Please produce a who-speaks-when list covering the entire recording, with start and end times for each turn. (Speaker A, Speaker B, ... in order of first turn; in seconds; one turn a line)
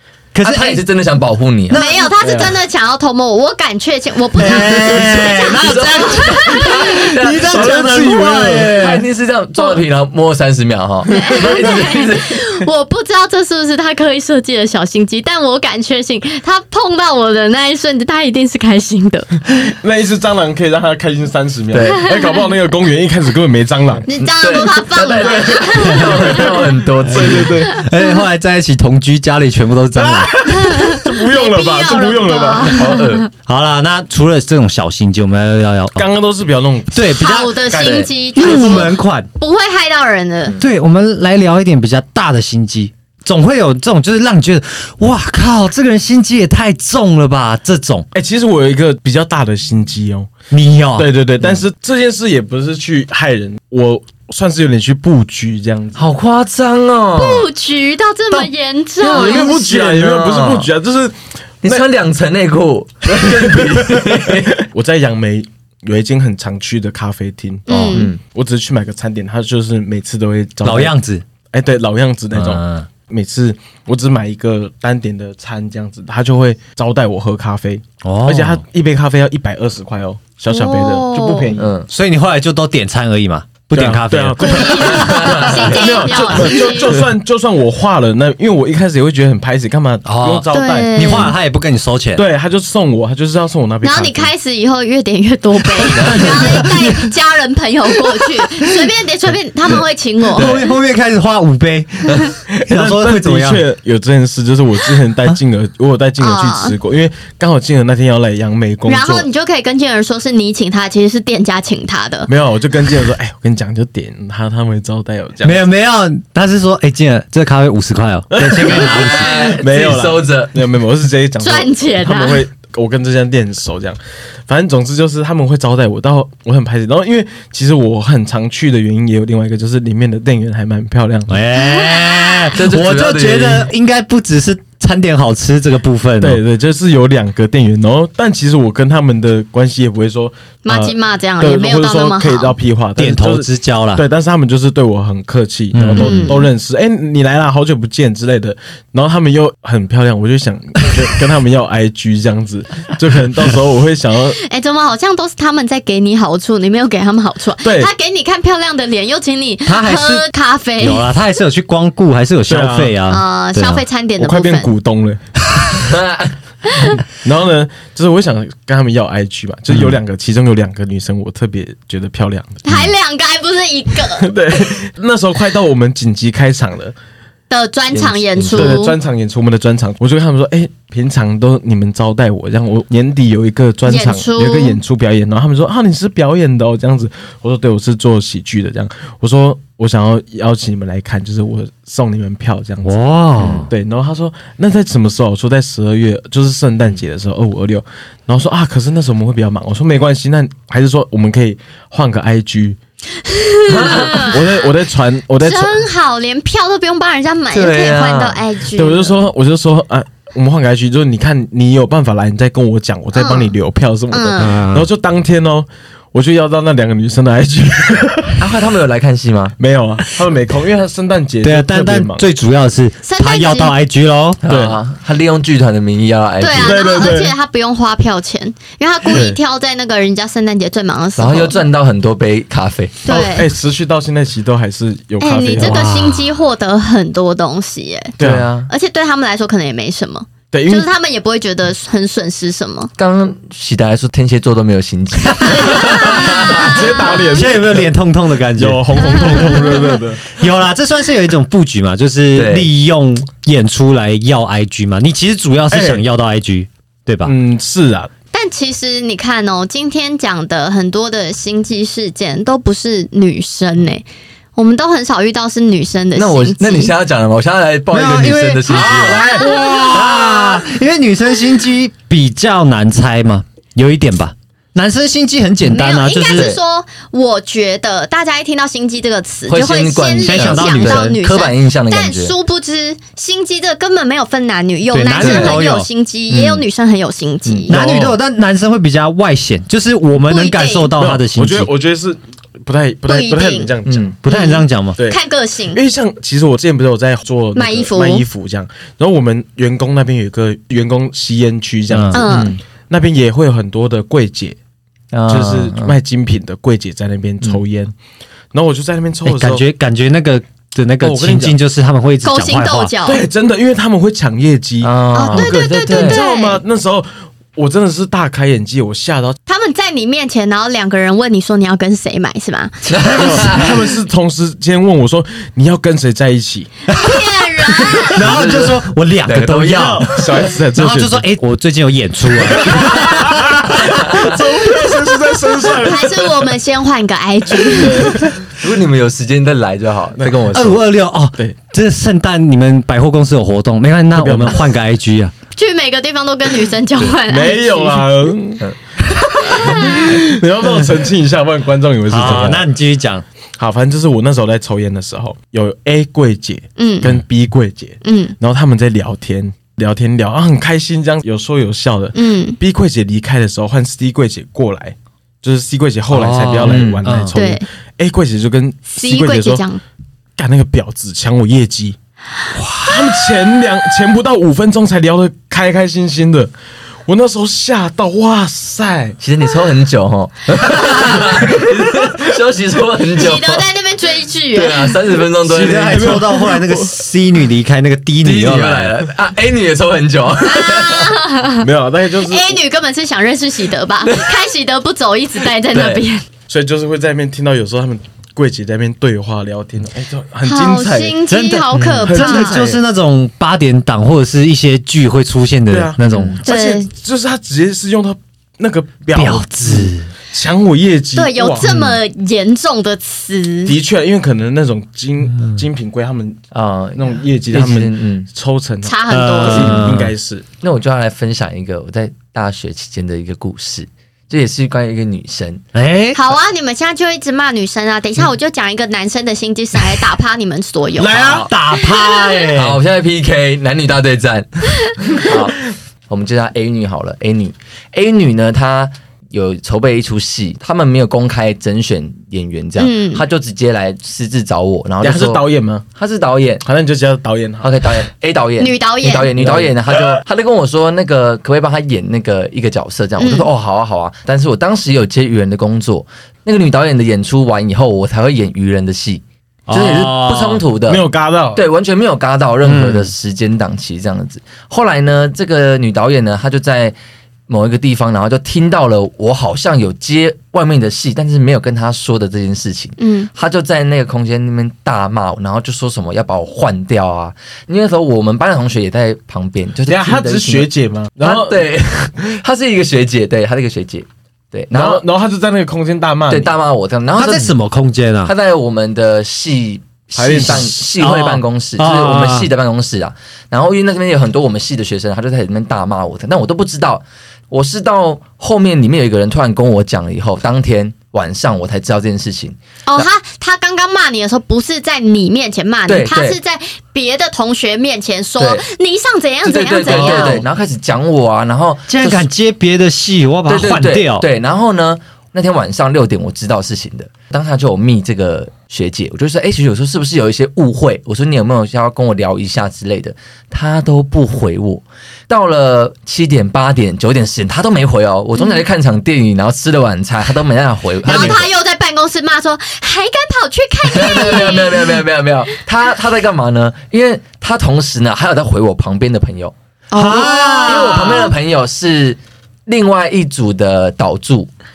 Speaker A: 0.3-0.8
Speaker B: 0.4-1.9
Speaker C: 1.7-7.1
Speaker A: 1.7-2.1
Speaker D: 2.2-2.5
Speaker A: 4.4-9.1
Speaker B: 4.5-8.0
Speaker D: 7.4-8.8
Speaker B: 8.6-12.4
Speaker C: 11.1-19.3
Speaker D: 19.6-24.1
Speaker B: 21.7-22.0
Speaker C: 24.1-26.7
Speaker B: 24.2-27.7
Speaker D: 25.2-27.8
Speaker A: 27.2-30.3
Speaker D: 29.9-33.0
Speaker C: 30.4-33.2
Speaker B: 32.6-33.3
Speaker A: 33.5-36.0
Speaker D: 36.0-37.1
Speaker A: 36.9-37.6
Speaker C: 37.1-40.6
Speaker D: 37.7-38.0
Speaker B: 37.7-38.8
Speaker A: 38.3-39.3
Speaker A: 40.6-48.1
Speaker D: 48.1-50.3
Speaker A: 50.5-51.1
Speaker D: 51.0-56.1
Speaker B: 56.0-57.5
Speaker C: 57.1-59.5
Speaker B: 59.0-60.7
Speaker D: 59.0-61.8
Speaker B: 61.6-64.6
Speaker D: 63.1-70.9
Speaker C: 67.7-68.1
Speaker B: 67.7-68.2
Speaker A: 70.6-71.2
Speaker D: 71.5-81.7
Speaker A: 72.3-72.9
Speaker A: 78.0-78.6
Speaker C: 80.5-81.5
Speaker B: 81.6-81.9
Speaker A: 81.9-85.5
Speaker D: 83.7-91.3
Speaker C: 84.4-87.0
Speaker B: 84.9-85.9
Speaker A: 90.0-92.2
Speaker C: 90.5-91.3
Speaker D: 92.2-94.3
Speaker C: 93.8-100.7
Speaker B: 95.8-96.7
Speaker A: 96.0-97.1
Speaker A: 98.1-98.8
Speaker A: 100.3-103.6
Speaker B: 102.1-102.3
Speaker D: 102.5-109.3
Speaker C: 106.2-106.7
Speaker C: 108.8-112.3
Speaker D: 112.3-115.7
Speaker A: 115.4-119.4
Speaker D: 118.3-131.4
Speaker B: 118.6-120.5
Speaker C: 121.4-122.4
Speaker A: 131.3-136.4
Speaker C: 131.6-132.5
Speaker B: 132.6-133.7
Speaker D: 136.2-154.4
Speaker C: 140.6-142.5
Speaker A: 143.0-144.0
Speaker A: 145.7-146.3
Speaker C: 146.0-146.5
Speaker C: 154.4-161.1
Speaker D: 157.6-157.9
Speaker A: 159.7-160.2
Speaker A: 160.8-163.8
Speaker D: 162.5-162.9
Speaker C: 163.1-164.7
Speaker D: 164.2-165.2
Speaker B: 165.8-166.3
Speaker D: 167.2-172.6
Speaker C: 172.6-174.7
Speaker D: 174.2-176.9
Speaker C: 177.5-178.9
Speaker B: 177.9-178.8
Speaker D: 178.5-193.0
Speaker C: 183.8-184.8
Speaker A: 192.8-193.7
Speaker D: 193.7-202.8
Speaker C: 203.3-204.5
Speaker B: 203.7-204.4
Speaker D: 203.7-205.8
Speaker C: 205.4-209.2
Speaker B: 207.5-208.4
Speaker D: 208.7-218.4
Speaker C: 213.1-213.5
Speaker C: 214.1-214.6
Speaker A: 214.4-214.9
Speaker B: 218.4-219.6
Speaker D: 219.6-222.2
Speaker A: 221.4-224.4
Speaker C: 223.0-223.7
Speaker B: 224.4-227.1
Speaker D: 224.5-224.8
Speaker C: 226.4-231.6
Speaker D: 226.6-227.3
Speaker D: 229.1-229.4
Speaker B: 231.2-233.1
Speaker C: 233.0-233.5
Speaker D: 233.1-235.8
Speaker C: 235.2-242.9
Speaker A: 235.6-236.4
Speaker D: 238.2-238.5
Speaker B: 238.2-238.7
Speaker D: 240.5-240.9
Speaker B: 243.0-247.2
Speaker D: 246.1-247.9
Speaker A: 247.3-257.3
Speaker D: 248.6-250.3
Speaker B: 252.3-252.7
Speaker D: 255.7-256.0
Speaker D: 257.2-258.1
Speaker C: 258.3-264.0
Speaker C: 264.6-266.9
Speaker B: 266.1-270.6
Speaker A: 267.9-276.5
Speaker C: 268.6-269.8
Speaker C: 275.6-287.8
Speaker B: 276.3-276.6
Speaker B: 279.5-282.3
Speaker A: 280.2-281.2
Speaker A: 284.9-285.9
Speaker B: 285.2-285.6
Speaker B: 286.3-286.6
Speaker B: 287.4-287.8
Speaker A: 287.7-291.7
Speaker D: 287.7-288.2
Speaker C: 290.3-290.9
Speaker D: 291.0-294.1
Speaker C: 293.1-293.7
Speaker B: 293.8-294.1
Speaker A: 294.2-295.0
Speaker C: 294.2-295.8
Speaker D: 295.7-304.6
Speaker C: 297.5-298.2
Speaker A: 301.9-302.2
Speaker C: 302.1-302.6
Speaker B: 302.2-302.6
Speaker B: 305.1-306.0
Speaker D: 305.3-307.9
Speaker D: 308.5-309.6
Speaker A: 309.2-312.9
Speaker D: 311.0-311.6
Speaker C: 312.2-313.2
Speaker D: 313.0-319.4
Speaker B: 314.8-316.2
Speaker C: 315.1-316.6
Speaker C: 319.5-322.8
Speaker B: 322.9-323.8
Speaker A: 323.0-323.3
Speaker D: 323.1-326.7
Speaker A: 326.9-327.2
Speaker C: 326.9-328.2
Speaker A: 328.1-330.2
Speaker B: 328.1-330.3
Speaker D: 329.7-331.2
Speaker A: 330.7-333.8
Speaker D: 332.4-336.5
Speaker B: 333.8-334.4
Speaker C: 335.7-338.2
Speaker D: 337.6-338.3
Speaker B: 338.5-340.8
Speaker D: 340.2-340.6
Speaker A: 340.5-345.3
Speaker D: 344.1-344.7
Speaker C: 345.6-348.1
Speaker D: 347.3-348.7
Speaker D: 349.4-352.7
Speaker C: 349.5-350.2
Speaker A: 352.1-353.2
Speaker D: 353.6-369.6
Speaker C: 356.8-357.1
Speaker C: 358.0-358.3
Speaker C: 362.1-362.6
Speaker A: 366.1-367.4
Speaker B: 366.6-367.1
Speaker C: 367.3-367.6
Speaker C: 368.9-369.8
Speaker D: 370.4-371.9
Speaker A: 372.6-373.0
Speaker D: 372.8-376.5
Speaker D: 377.1-379.2
Speaker B: 379.2-383.6
Speaker C: 383.1-385.0
Speaker B: 384.5-386.3
Speaker A: 385.4-389.0
Speaker D: 385.8-386.9
Speaker B: 388.2-391.1
Speaker C: 390.4-396.2
Speaker D: 391.6-392.6
Speaker B: 395.7-396.0
Speaker D: 396.5-401.2
Speaker C: 400.4-402.6
Speaker A: 401.3-406.4
Speaker D: 402.0-402.8
Speaker D: 405.7-411.6
Speaker C: 406.4-406.9
Speaker A: 409.1-410.1
Speaker C: 411.1-413.8
Speaker B: 411.6-412.0
Speaker D: 413.6-416.4
Speaker B: 416.5-418.3
Speaker D: 416.9-420.4
Speaker C: 418.8-419.9
Speaker A: 419.1-420.1
Speaker B: 420.6-425.6
Speaker A: 425.7-426.2
Speaker C: 426.1-432.4
Speaker A: 431.0-432.8
Speaker B: 431.1-431.5
Speaker B: 432.5-446.6
Speaker C: 442.8-443.2
Speaker D: 445.0-445.8
Speaker D: 446.6-447.7
Speaker B: 447.6-466.9
Speaker C: 448.6-449.3
Speaker D: 449.4-450.1
Speaker C: 453.2-453.5
Speaker A: 459.7-460.6
Speaker D: 460.9-461.6
Speaker A: 462.6-463.1
Speaker B: 467.5-480.7
Speaker C: 473.0-473.3
Speaker D: 479.9-481.6
Speaker B: 481.2-485.0
Speaker D: 484.7-486.5
Speaker B: 486.3-487.5
Speaker A: 487.1-488.3
Speaker B: 488.2-503.1
Speaker D: 490.1-490.7
Speaker A: 490.4-492.5
Speaker C: 502.9-510.4
Speaker B: 505.9-506.4
Speaker B: 508.4-508.6
Speaker B: 509.4-512.3
Speaker D: 509.9-510.3
Speaker A: 511.9-514.2
Speaker B: 513.5-531.5
Speaker C: 531.0-535.0
Speaker A: 531.1-531.4
Speaker B: 533.9-539.5
Speaker C: 539.9-541.3
Speaker A: 539.9-541.1
Speaker B: 540.6-544.5